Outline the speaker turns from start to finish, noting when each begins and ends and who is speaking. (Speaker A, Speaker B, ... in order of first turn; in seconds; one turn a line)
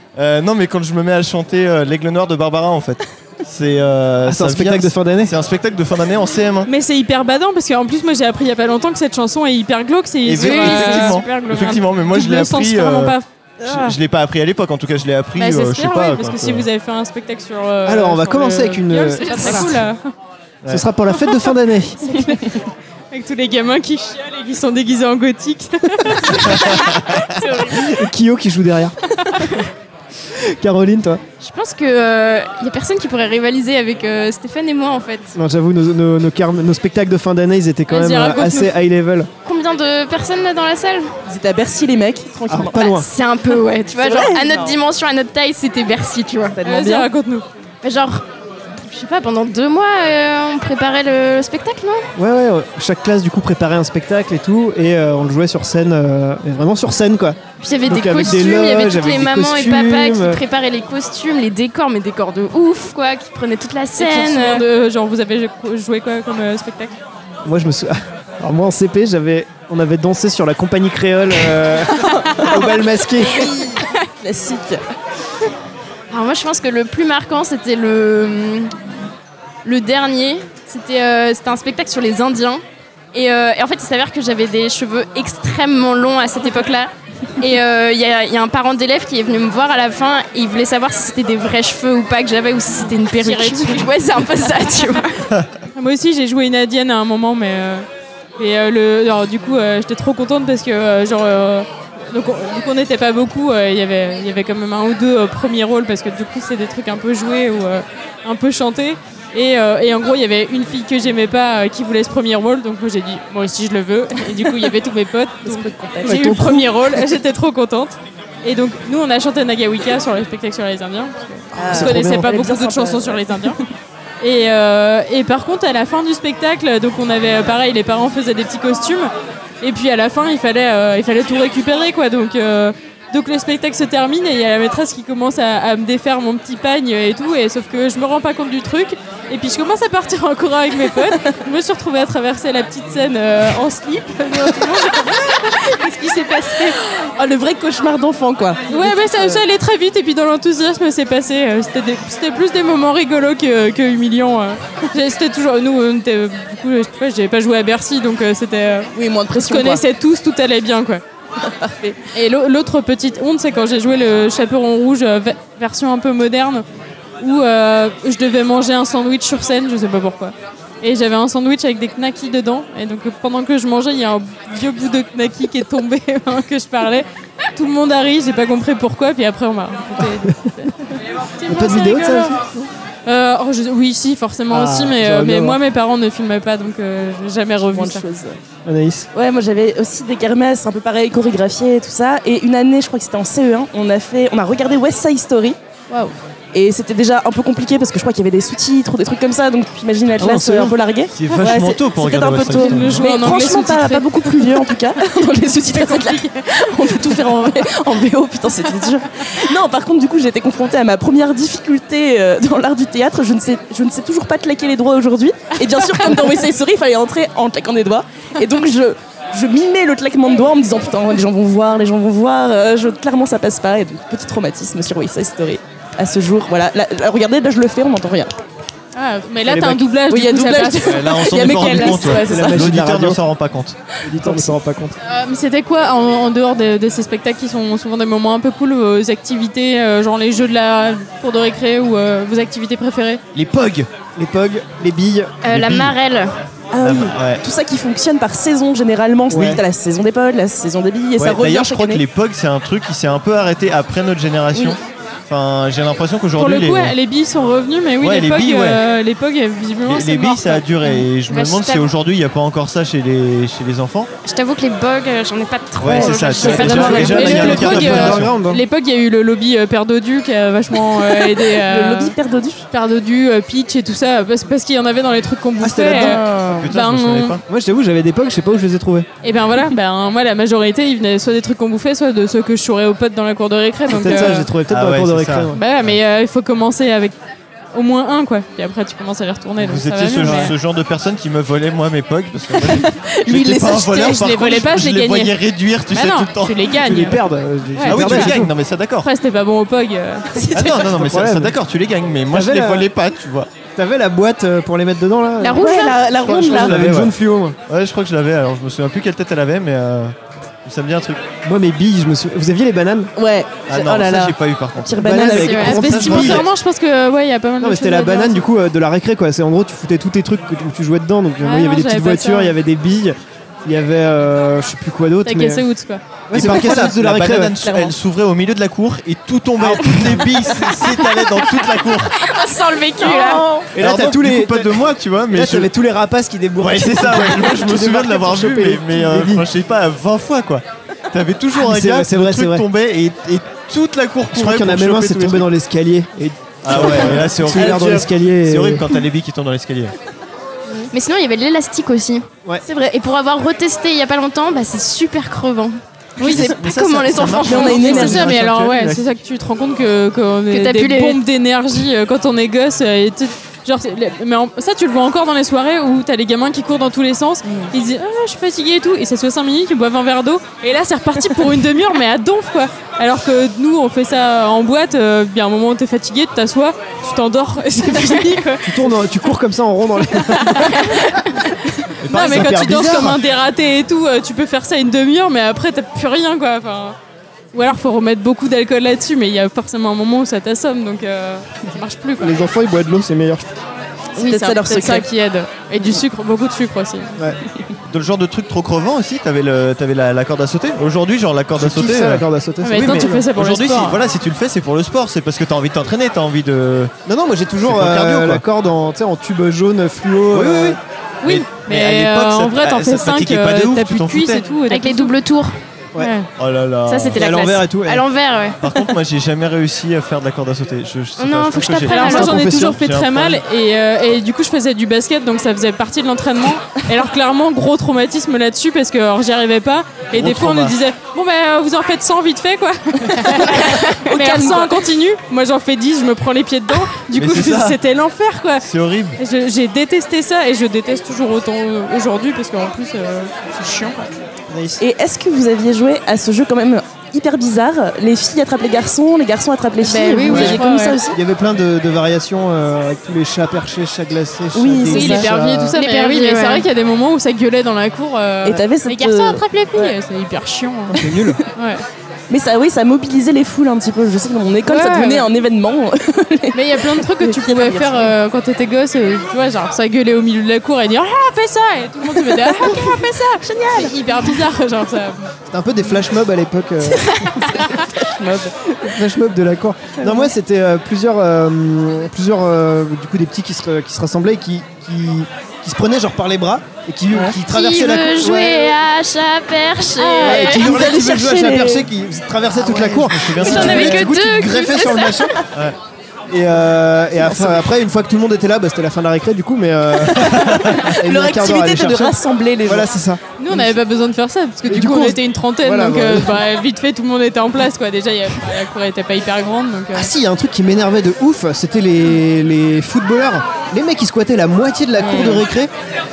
Speaker A: 0.2-6.7
Speaker B: 4.3-5.3
Speaker C: 6.7-13.9
Speaker A: 10.2-16.7
Speaker D: 10.4-11.1
Speaker C: 15.4-20.0
Speaker B: 17.9-19.7
Speaker D: 19.2-19.6
Speaker B: 20.7-22.0
Speaker C: 22.0-22.6
Speaker C: 23.1-27.9
Speaker B: 27.8-28.9
Speaker C: 29.3-29.6
Speaker B: 30.4-31.2
Speaker D: 31.4-35.4
Speaker B: 35.4-39.3
Speaker C: 37.9-38.7
Speaker D: 39.5-41.1
Speaker E: 41.3-43.0
Speaker B: 42.5-43.1
Speaker D: 42.8-46.6
Speaker E: 44.0-44.8
Speaker E: 46.5-47.1
Speaker C: 46.6-47.5
Speaker D: 47.8-52.1
Speaker B: 52.2-60.4
Speaker D: 57.6-64.6
Speaker C: 64.0-67.0
Speaker B: 67.5-73.5
Speaker E: 72.2-74.8
Speaker D: 76.1-78.7
Speaker D: 79.7-82.6
Speaker D: 83.1-95.3
Speaker C: 93.2-93.9
Speaker C: 95.8-97.9
Speaker C: 98.4-123.6
Speaker E: 115.4-116.4
Speaker B: 116.0-116.6
Speaker E: 121.5-123.6
Speaker B: 121.6-122.2
Speaker C: 124.2-146.8
Speaker E: 146.6-149.4
Speaker C: 148.7-161.0
Speaker E: 158.9-159.8
Speaker E: 161.4-162.0
Speaker C: 162.1-166.7
Speaker C: 167.2-182.4
Speaker B: 181.5-182.7
Speaker C: 183.1-188.0
Speaker B: 184.5-185.6
Speaker E: 187.7-188.4
Speaker B: 188.7-189.1
Speaker E: 189.1-195.6
Speaker E: 196.5-228.3
Speaker B: 200.2-200.8
Speaker A: 201.1-203.1
Speaker C: 201.3-201.8
Speaker C: 202.4-207.5
Speaker C: 228.9-232.2
Speaker B: 229.5-229.8
Speaker E: 230.1-232.6
Speaker A: 230.8-233.8
Speaker B: 232.2-233.2
Speaker B: 234.0-235.0
Speaker E: 234.2-234.5
Speaker C: 235.0-243.2
Speaker A: 243.3-243.9
Speaker B: 244.2-245.4
Speaker D: 245.4-246.3
Speaker A: 245.5-245.9
Speaker E: 246.7-252.0
Speaker A: 246.8-247.4
Speaker B: 249.3-249.6
Speaker A: 251.2-256.9
Speaker C: 256.4-260.7
Speaker A: 258.0-258.8
Speaker A: 259.9-264.1
Speaker D: 260.9-261.9
Speaker D: 264.3-267.5
Speaker A: 265.8-268.3
Speaker B: 265.8-268.6
Speaker C: 266.7-272.1
Speaker E: 266.9-267.2
Speaker E: 271.0-272.7
Speaker C: 272.7-277.4
Speaker B: 275.6-276.2
Speaker E: 275.8-276.7
Speaker A: 276.5-277.4
Speaker B: 277.5-279.1
Speaker C: 279.2-284.5
Speaker B: 283.9-285.6
Speaker A: 284.7-286.0
Speaker C: 285.5-287.2
Speaker C: 287.7-290.6
Speaker A: 289.6-296.7
Speaker B: 290.2-290.5
Speaker E: 292.7-294.2
Speaker C: 293.9-295.4
Speaker C: 295.9-298.4
Speaker B: 296.8-298.5
Speaker A: 297.9-299.1
Speaker C: 299.0-300.8
Speaker A: 300.5-303.5
Speaker B: 300.9-301.6
Speaker B: 302.3-302.9
Speaker B: 303.8-305.7
Speaker D: 305.4-306.1
Speaker E: 305.6-306.9
Speaker A: 306.2-307.1
Speaker B: 306.3-307.6
Speaker A: 307.7-311.2
Speaker B: 311.4-313.1
Speaker E: 313.2-316.2
Speaker A: 313.7-316.5
Speaker B: 315.0-316.4
Speaker D: 315.3-315.8
Speaker C: 315.6-318.5
Speaker B: 317.6-325.6
Speaker C: 321.4-322.6
Speaker C: 325.2-326.0
Speaker B: 326.3-327.6
Speaker A: 326.3-332.2
Speaker E: 327.6-327.9
Speaker B: 329.6-330.3
Speaker D: 331.9-333.6
Speaker E: 333.0-333.7
Speaker B: 333.7-339.5
Speaker A: 333.8-335.7
Speaker A: 336.6-345.5
Speaker B: 341.6-342.7
Speaker B: 344.3-348.8
Speaker A: 346.6-349.9
Speaker D: 350.9-358.4
Speaker A: 356.2-359.0
Speaker E: 356.2-356.5
Speaker E: 357.3-358.4
Speaker C: 357.8-378.9
Speaker D: 360.5-361.2
Speaker E: 367.4-367.7
Speaker B: 378.6-380.9
Speaker C: 380.4-381.4
Speaker B: 382.0-383.2
Speaker C: 382.0-387.0
Speaker A: 382.1-382.5
Speaker C: 387.5-392.4
Speaker B: 392.2-393.5
Speaker E: 394.2-395.1
Speaker C: 394.2-397.2
Speaker A: 397.9-406.9
Speaker B: 401.6-403.3
Speaker C: 402.6-404.0
Speaker B: 407.1-410.8
Speaker A: 407.6-408.4
Speaker A: 410.3-414.6
Speaker C: 411.2-415.1
Speaker D: 414.7-415.6
Speaker C: 416.0-416.3
Speaker A: 416.4-417.5
Speaker D: 416.9-418.8
Speaker B: 417.1-418.0
Speaker A: 418.6-423.4
Speaker D: 421.2-422.4
Speaker C: 421.9-438.7
Speaker B: 422.2-422.7
Speaker A: 430.1-430.8
Speaker E: 433.1-434.8
Speaker A: 437.1-437.8
Speaker A: 438.6-439.2
Speaker C: 439.2-443.6
Speaker B: 444.5-444.8
Speaker E: 444.8-451.2
Speaker C: 449.9-451.0
Speaker B: 450.3-455.8
Speaker E: 454.6-455.3
Speaker C: 454.9-461.9
Speaker D: 455.7-456.7
Speaker E: 458.4-459.9
Speaker B: 460.9-461.4
Speaker E: 462.3-468.1
Speaker C: 464.6-465.3
Speaker C: 466.5-475.3
Speaker E: 472.3-474.4
Speaker B: 475.5-477.2
Speaker E: 477.4-478.7
Speaker C: 477.5-477.9
Speaker B: 478.8-488.8
Speaker E: 480.0-480.3
Speaker E: 487.1-487.4
Speaker D: 487.5-490.7
Speaker E: 490.0-491.9
Speaker B: 490.2-495.4
Speaker A: 492.7-494.1
Speaker D: 493.4-495.3
Speaker E: 493.4-493.7
Speaker B: 496.3-502.1
Speaker E: 497.2-497.7
Speaker A: 500.3-500.8
Speaker E: 500.7-502.9
Speaker B: 502.7-503.7
Speaker C: 503.4-510.1
Speaker B: 504.7-506.4
Speaker B: 509.9-515.7
Speaker E: 515.0-515.4